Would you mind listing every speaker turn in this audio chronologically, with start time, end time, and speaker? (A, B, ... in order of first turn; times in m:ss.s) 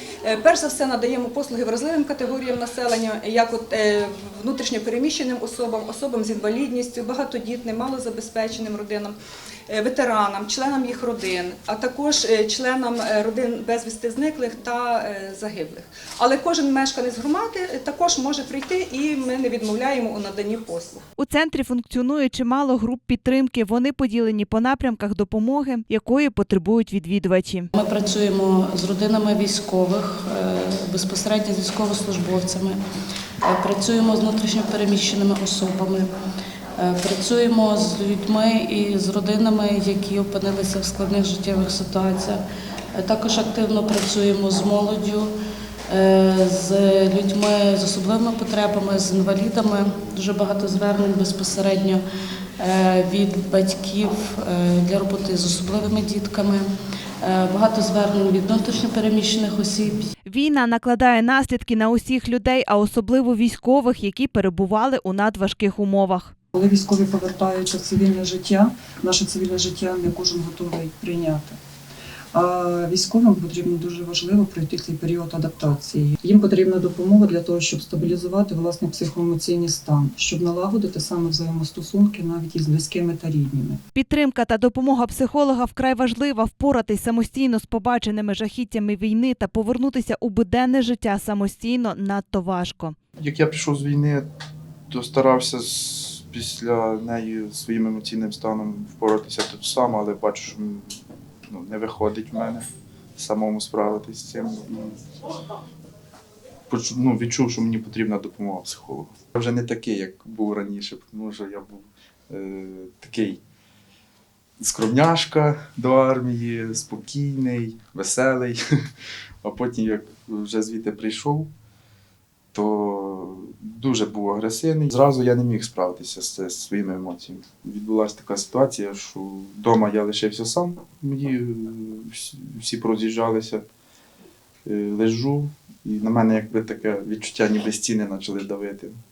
0:00.2-0:09.2 A
0:09.7-0:21.0 A
0:21.2-0:27.7 B
0:27.8-0:32.8 C
0:33.4-0:36.1 C
0:36.8-0:42.4 C
0:43.0-0:45.3 C
0:45.9-0:52.0 C
0:52.6-0:56.7 C
0:57.2-1:00.1 C
1:00.3-1:06.3 B
1:06.5-1:11.6 D
1:12.3-1:23.8 D
1:23.9-1:33.0 B
1:33.2-1:34.3 E
1:34.9-1:42.6 E
1:43.2-1:45.0 E
1:46.7-1:53.4 E
1:54.6-1:58.6 E
1:59.4-2:01.5 E
2:02.5-2:13.6 E
2:14.6-2:19.0 E